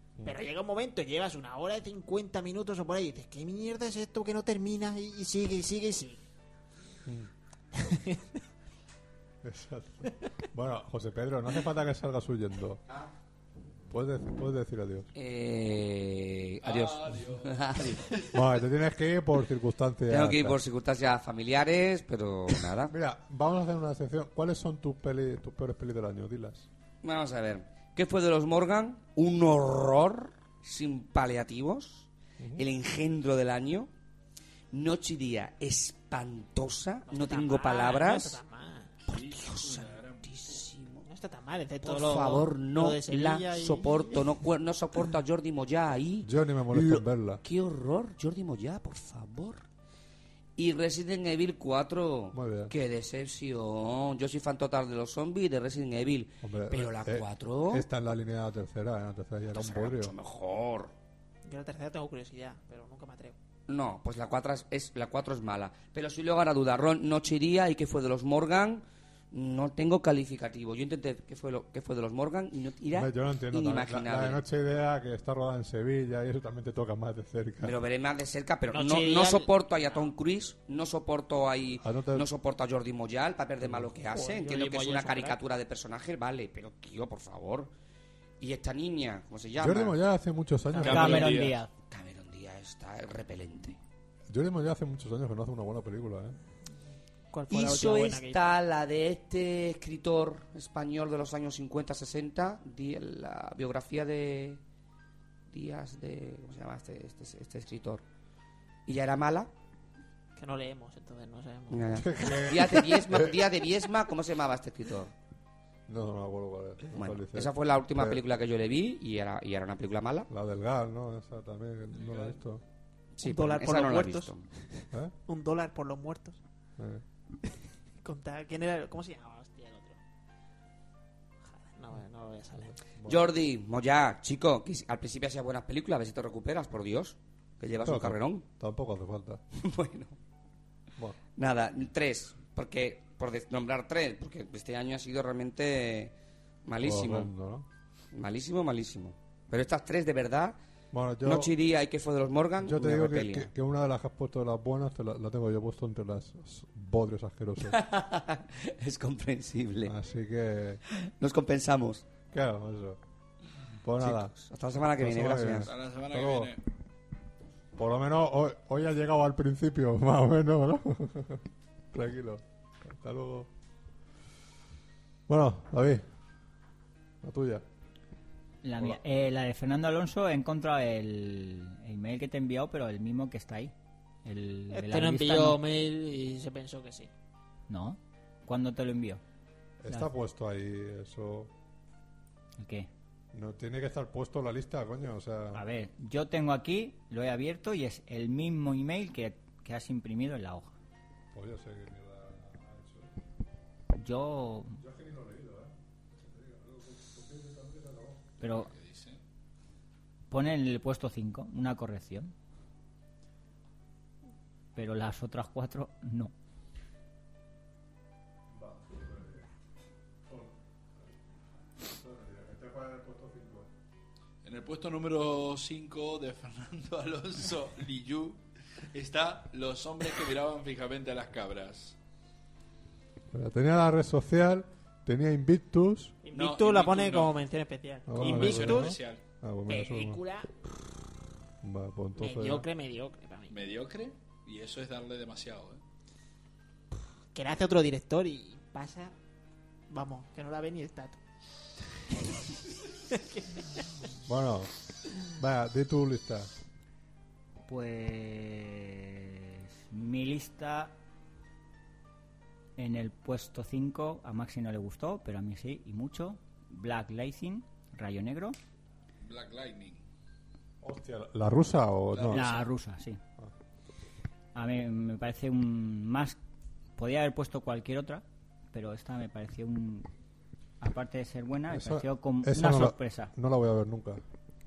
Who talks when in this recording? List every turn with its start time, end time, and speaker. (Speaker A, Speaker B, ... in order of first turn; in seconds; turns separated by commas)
Speaker A: 0.2-6.2, Speaker A: 7.7-8.3, Speaker B: 9.4-12.8, Speaker B: 13.9-15.1, Speaker C: 15.1-18.0, Speaker D: 16.6-18.3, Speaker B: 18.3-20.6, Speaker C: 20.1-22.9, Speaker B: 22.9-26.7, Speaker C: 27.0-33.9, Speaker C: 34.7-38.4, Speaker A: 37.1-39.0, Speaker D: 39.1-40.3, Speaker C: 39.1-41.1, Speaker A: 40.4-44.3, Speaker C: 41.8-49.6, Speaker B: 46.2-47.4, Speaker C: 50.6-57.8, Speaker B: 52.3-52.7, Speaker B: 56.4-60.1, Speaker C: 59.5-60.9, Speaker A: 61.4-63.4, Speaker C: 63.7-74.4, Speaker B: 72.9-77.8, Speaker C: 77.6-87.7, Speaker A: 78.7-79.5, Speaker B: 81.8-82.3, Speaker A: 84.1-85.4, Speaker C: 88.4-90.0, Speaker B: 89.6-91.4, Speaker E: 90.8-91.7, Speaker D: 90.8-91.5, Speaker C: 91.9-93.8, Speaker B: 94.3-96.4, Speaker A: 97.3-98.4, Speaker C: 97.5-104.6, Speaker C: 105.5-108.0, Speaker C: 108.9-109.5, Speaker A: 110.3-112.0, Speaker C: 111.7-115.1, Speaker B: 112.0-113.3, Speaker B: 115.9-118.2, Speaker C: 116.9-120.3, Speaker B: 120.3-122.6, Speaker D: 121.9-122.4, Speaker C: 123.2-124.4, Speaker A: 123.2-126.4, Speaker B: 126.8-127.0, Speaker A: 128.0-130.0, Speaker A: 131.4-132.7, Speaker C: 133.1-138.4, Speaker B: 137.8-139.4, Speaker C: 139.5-140.2, Speaker C: 141.3-146.1, Speaker C: 146.6-147.3, Speaker B: 146.8-147.7, Speaker C: 148.1-150.6, Speaker B: 150.9-151.5, Speaker C: 151.2-153.5, Speaker B: 152.6-157.8, Speaker C: 157.6-159.9, Speaker B: 159.8-160.8, Speaker C: 160.9-162.0, Speaker B: 162.3-163.0, Speaker B: 163.8-164.3, Speaker C: 164.0-165.7, Speaker B: 165.0-166.5, Speaker D: 165.6-166.6, Speaker B: 167.7-173.5, Speaker B: 175.3-176.1, Speaker B: 177.2-177.6, Speaker E: 178.6-183.7, Speaker E: 184.2-185.6, Speaker A: 184.7-187.1, Speaker E: 187.7-189.2, Speaker B: 189.8-191.5, Speaker E: 192.6-192.9, Speaker B: 193.3-195.6, Speaker E: 195.5-200.7, Speaker B: 201.3-203.1, Speaker E: 203.9-204.8, Speaker B: 204.8-208.4, Speaker E: 208.4-208.7, Speaker D: 208.5-209.2, Speaker E: 210.3-212.3, Speaker E: 214.7-216.3, Speaker B: 218.5-219.4, Speaker B: 220.2-221.1, Speaker B: 221.8-223.7, Speaker D: 224.4-228.4, Speaker D: 228.9-231.9, Speaker B: 233.3-236.2, Speaker A: 236.2-239.0, Speaker D: 236.3-237.3, Speaker B: 238.1-240.2, Speaker D: 238.2-239.2, Speaker A: 239.7-240.5, Speaker B: 241.6-242.7, Speaker A: 242.2-243.5, Speaker D: 243.5-245.8, Speaker A: 247.3-249.1, Speaker A: 249.9-251.2, Speaker A: 252.1-252.5, Speaker A: 253.1-253.8, Speaker B: 254.2-256.5, Speaker E: 257.7-260.9, Speaker E: 262.8-268.6, Speaker D: 269.2-270.0, Speaker B: 270.8-272.5, Speaker D: 272.1-272.7, Speaker E: 272.3-273.2, Speaker E: 274.5-276.4, Speaker E: 277.0-280.1, Speaker E: 280.8-283.3, Speaker B: 281.7-284.2